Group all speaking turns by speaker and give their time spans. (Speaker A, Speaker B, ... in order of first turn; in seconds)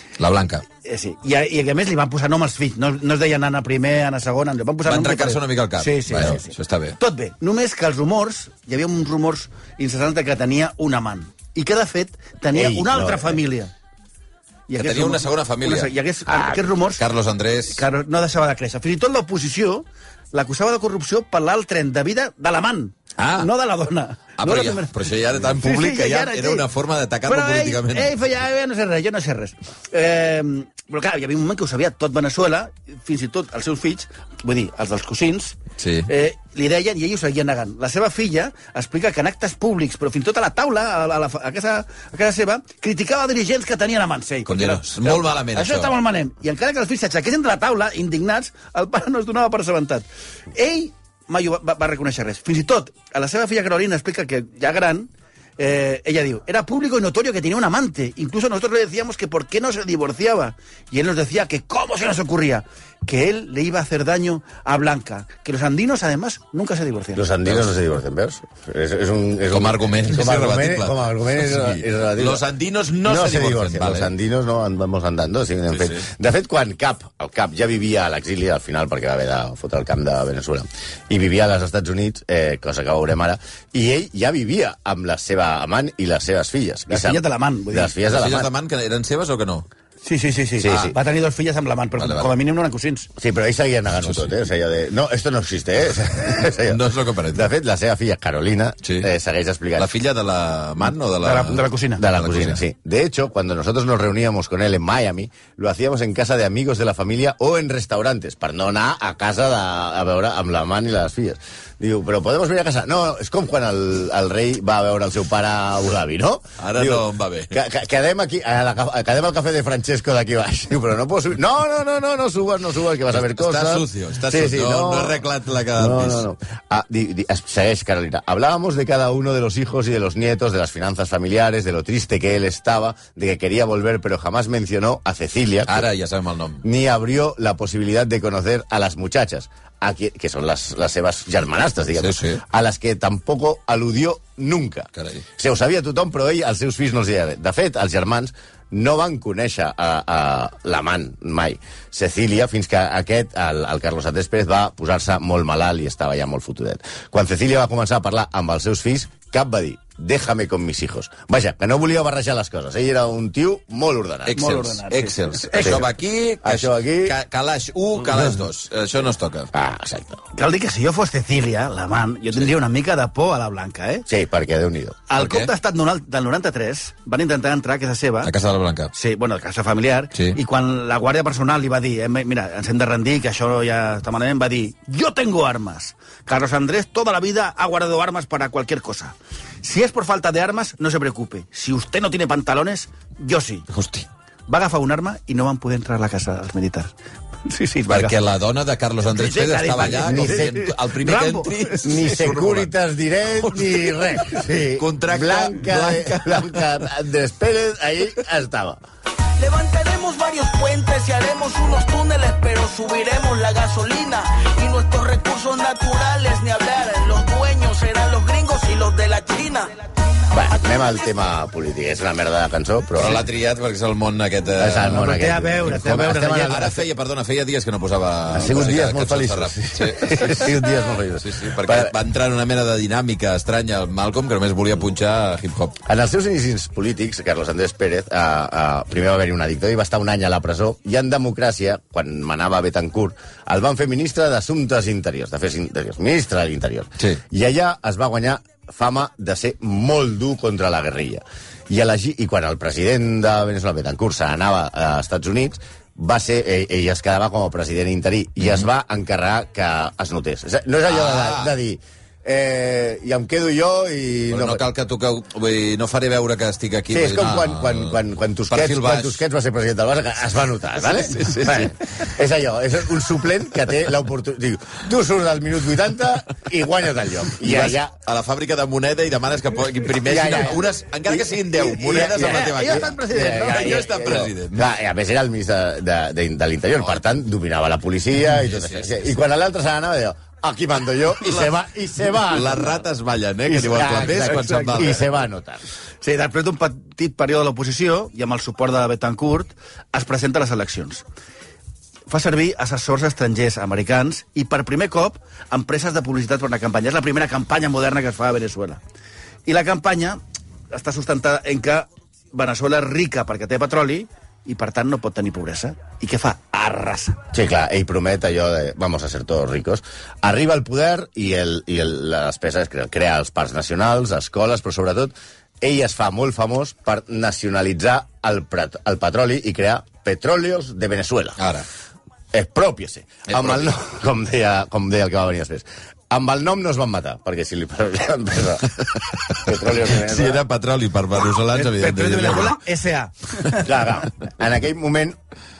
Speaker A: 0.2-0.6, 4.8-7.0, 14.8-15.9, 16.9-17.8, 23.2-23.5, 24.4-28.1, 35.8-36.1, 44.5-45.9, 67.4-67.7, 69.5-74.1, 75.7-76.1, 88.1-89.7, 90.6-91.0, 92.0-92.3, 94.0-94.3, 96.7-97.5, 98.8-99.1, 99.8-102.6, 116.6-117.5, 123.1-126.3, 135.7-136.6, 142.0-142.4, 144.9-145.2, 164.2-169.5, 175.1-175.5, 178.2-178.9, 180.1-180.4, 193.7-194.1, 197.9-202.7, 203.3-206.7, 223.0-225.1, 226.4-230.5, 231.2-235.8, 260.9-261.6, 264.3-268.0, 268.5-269.2, 270.8-272.1, 277.3-284.7, 286.8-287.0, 288.3-289.1, 291.2-291.5, 292.3-295.0, 331.4-331.6, 333.3-333.7, 339.4-342.6
Speaker B: 0.8-13.7, 14.7-17.0, 17.7-26.6, 27.2-67.2, 86.9-87.9, 90.0-93.1, 101.2-102.0, 164.3-165.8, 170.3-174.1, 175.1-178.3, 178.9-193.7, 194.5-196.9, 197.4-198.2, 199.1-201.9, 224.9-226.7, 281.8-283.8, 294.2-294.9, 296.0-301.0, 302.1-308.8, 309.4-310.2, 310.7-317.2, 341.5-343.7
Speaker C: 12.5-13.4, 16.3-16.7, 67.1-72.4, 73.0-88.5, 90.6-90.9, 93.2-99.9, 102.0-125.2, 125.8-135.8, 136.6-164.4, 165.6-165.9, 166.4-167.2, 169.5-170.2, 174.1-175.0, 200.0-200.6, 201.8-208.8, 220.3-223.2, 224.6-226.8, 228.3-231.9, 235.8-264.6, 266.9-277.9, 280.0-292.8, 293.5-295.6, 317.3-331.4, 332.3-340.4, 343.6-345.1
Speaker D: 209.4-219.7